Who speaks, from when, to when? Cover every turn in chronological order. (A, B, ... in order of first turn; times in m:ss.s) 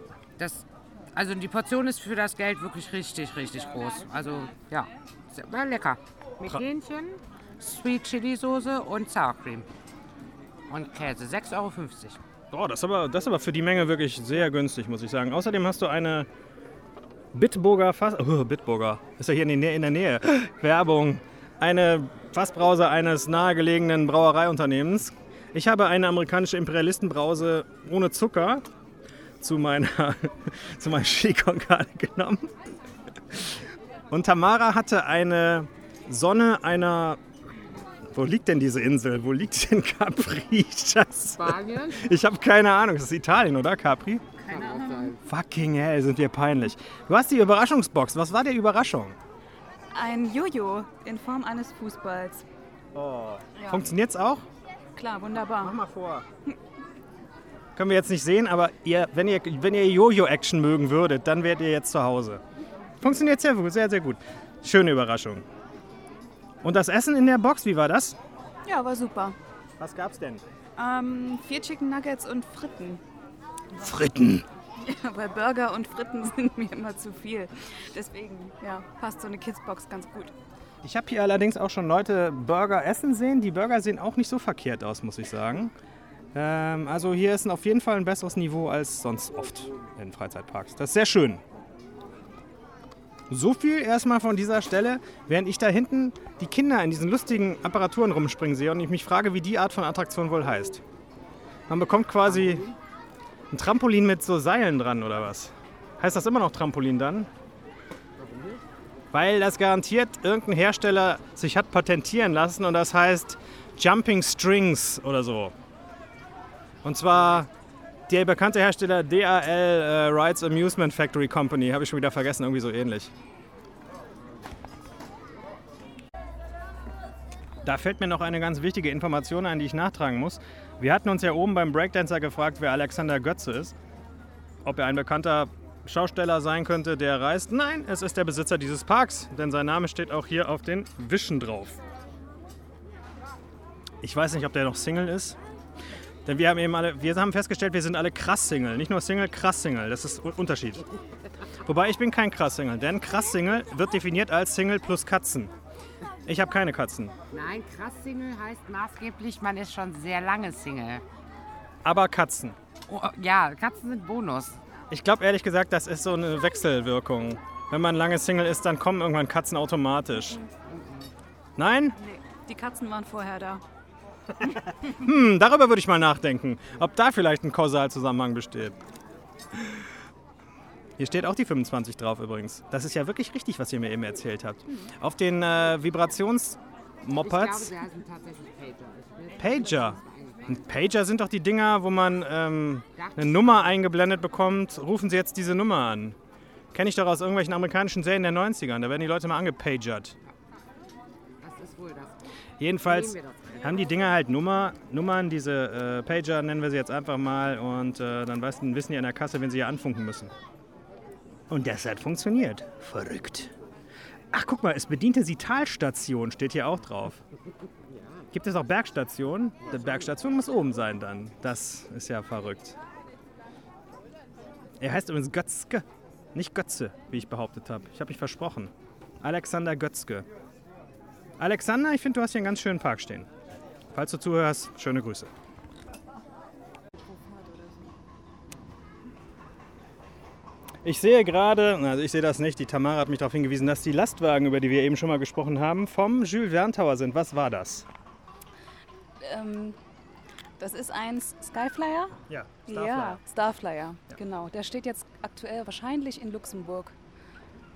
0:00.4-0:09.7 A
0:10.7-0:12.2 A
0:12.5-0:16.3 B
0:17.3-0:28.6 B
0:29.4-0:32.7 B
0:33.3-0:37.2 B
0:38.1-0:44.2 B
0:41.4-0:42.0 A
0:44.4-0:45.2 A
0:44.5-0:45.1 C
0:45.2-0:49.2 B
0:49.9-0:52.4 C
0:52.9-0:54.4 B
0:55.0-0:55.8 C
0:55.6-0:56.2 B
0:57.7-1:02.4 B
1:03.0-1:05.4 B
1:06.6-1:08.2 B
1:08.6-1:09.4 C
1:09.8-1:10.4 B
1:10.8-1:13.0 C
1:13.7-1:14.4 B
1:14.8-1:20.3 C
1:20.8-1:25.7 B
1:26.3-1:31.4 B
1:33.3-1:40.8 B
1:41.7-1:42.6 B
1:42.3-1:42.7 A
1:43.5-1:47.3 B
1:48.2-1:48.6 A
1:49.1-1:55.5 B
1:56.8-1:57.5 B
1:58.1-2:03.1 B
2:07.6-2:13.8 B
2:14.6-2:21.8 B
2:24.0-2:25.4 B
2:26.2-2:30.9 B
2:31.6-2:35.5 B
2:36.2-2:37.1 B
2:37.3-2:41.0 A
2:41.8-2:42.6 B
2:42.9-2:44.6 A
2:44.9-2:50.4 B
2:50.7-2:51.1 A
2:51.6-2:52.0 B
2:52.0-2:53.6 C
2:54.8-2:58.8 B
2:59.6-2:59.8 B
3:01.0-3:07.7 B
3:07.2-3:10.6 A
3:09.4-3:16.2 B
3:13.0-3:13.8 A
3:16.7-3:20.2 B
3:21.4-3:22.2 A
3:22.6-3:30.3 B
3:22.8-3:23.7 A
3:31.5-3:33.5 B
3:34.3-3:37.2 B
3:38.3-3:42.8 B
3:44.8-3:50.2 B
3:51.4-3:53.3 B
3:53.9-3:55.3 B
4:00.8-4:07.9 B
4:09.2-4:09.8 C
4:10.6-4:16.9 C
4:12.3-4:13.2 B